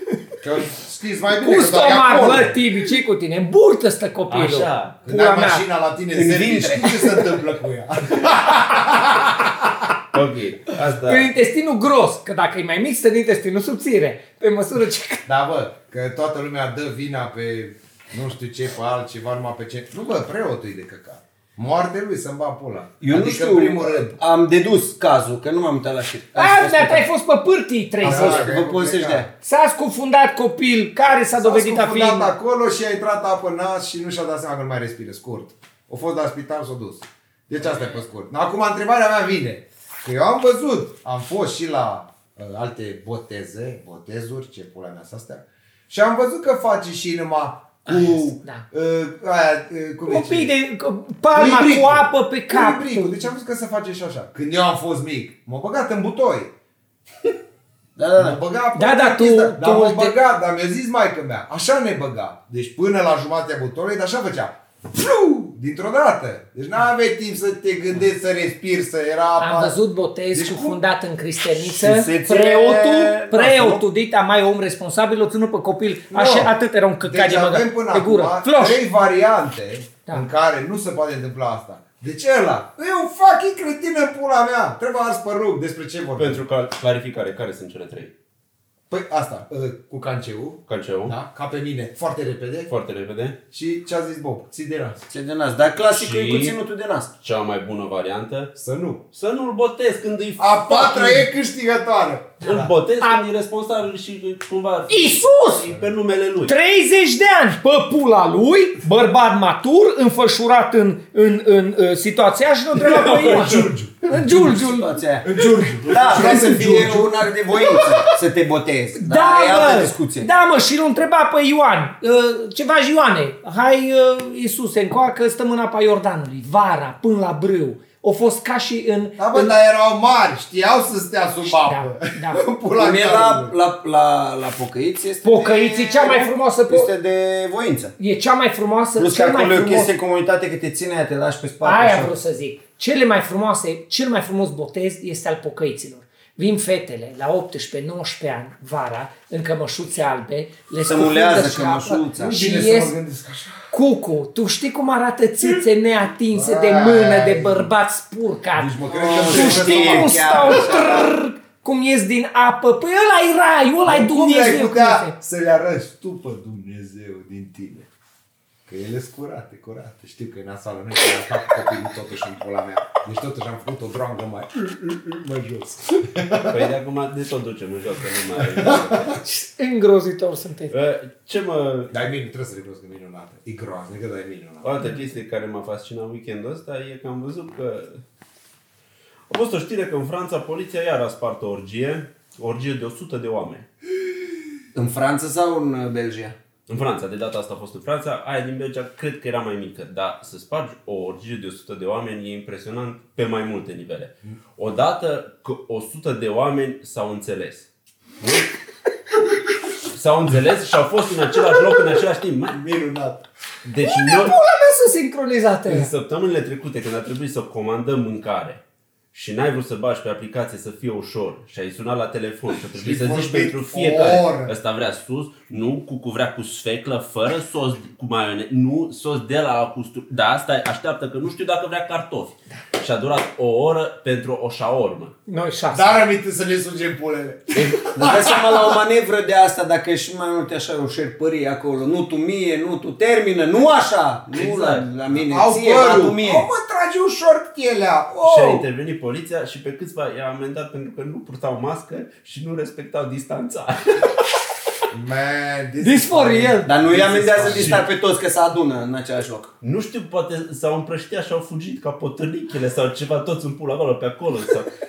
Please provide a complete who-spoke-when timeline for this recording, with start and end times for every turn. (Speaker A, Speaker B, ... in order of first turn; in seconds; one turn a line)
Speaker A: 0.4-2.6
Speaker B: 1.4-5.6
Speaker C: 4.3-5.0
Speaker A: 5.0-9.9
Speaker D: 6.1-7.3
Speaker C: 10.1-11.3
Speaker B: 11.0-15.2
Speaker A: 15.3-24.1
Speaker D: 23.0-27.1
Speaker B: 26.4-28.5
Speaker A: 28.0-29.3
Speaker D: 28.0-29.3
Speaker B: 29.4-32.3
Speaker A: 31.4-50.5
Speaker B: 47.9-48.6
Speaker B: 50.1-53.3
Speaker A: 51.3-56.5
Speaker D: 58.0-58.4
Speaker A: 58.2-69.8
Speaker B: 58.8-60.2
Speaker B: 69.4-78.8
Speaker A: 70.3-70.8
Speaker D: 71.6-73.8
Speaker A: 76.1-86.4
Speaker C: 86.2-88.1
Speaker A: 88.9-92.7
Speaker C: 90.7-91.2
Speaker C: 92.7-93.4
Speaker A: 93.5-95.0
Speaker D: 95.1-97.1
Speaker C: 95.9-96.5
Speaker C: 97.2-98.5
Speaker A: 98.6-99.0
Speaker C: 99.1-101.2
Speaker A: 100.4-102.7
Speaker C: 102.4-106.5
Speaker B: 102.4-103.2
Speaker B: 104.9-105.7
Speaker B: 106.5-115.0
Speaker A: 112.7-114.5
Speaker D: 114.2-115.3
Speaker A: 115.2-117.9
Speaker D: 115.9-120.3
Speaker B: 119.0-129.5
Speaker A: 129.2-133.5
Speaker B: 131.6-132.4
Speaker D: 132.8-137.9
Speaker B: 135.2-136.9
Speaker B: 138.0-139.9
Speaker D: 139.0-142.1
Speaker B: 141.6-152.9
Speaker D: 150.8-152.3
Speaker A: 152.2-153.7
Speaker B: 153.7-165.1
Speaker A: 156.3-157.7
Speaker A: 158.6-160.7
Speaker D: 158.9-161.1
Speaker A: 163.8-167.9
Speaker A: 168.7-176.7
Speaker C: 176.5-179.2
Speaker A: 178.4-179.2
Speaker B: 179.2-180.8
Speaker C: 180.7-181.9
Speaker A: 181.9-184.7
Speaker C: 184.6-188.0
Speaker B: 184.8-185.1
Speaker C: 189.3-193.7
Speaker D: 194.7-196.4
Speaker C: 196.7-207.7
Speaker C: 208.2-208.5
Speaker C: 209.9-212.6
Speaker A: 212.5-213.2
Speaker C: 213.6-214.4
Speaker B: 213.8-215.9
Speaker C: 215.7-218.6
Speaker C: 219.1-235.1
Speaker A: 222.7-224.5
Speaker B: 235.3-236.0
Speaker A: 235.7-238.8
Speaker D: 237.9-246.5
Speaker C: 244.3-244.9
Speaker A: 245.1-248.7
Speaker C: 248.2-254.2
Speaker A: 254.9-257.9
Speaker B: 255.8-256.7
Speaker D: 256.6-259.5
Speaker C: 257.4-257.8
Speaker C: 259.6-264.7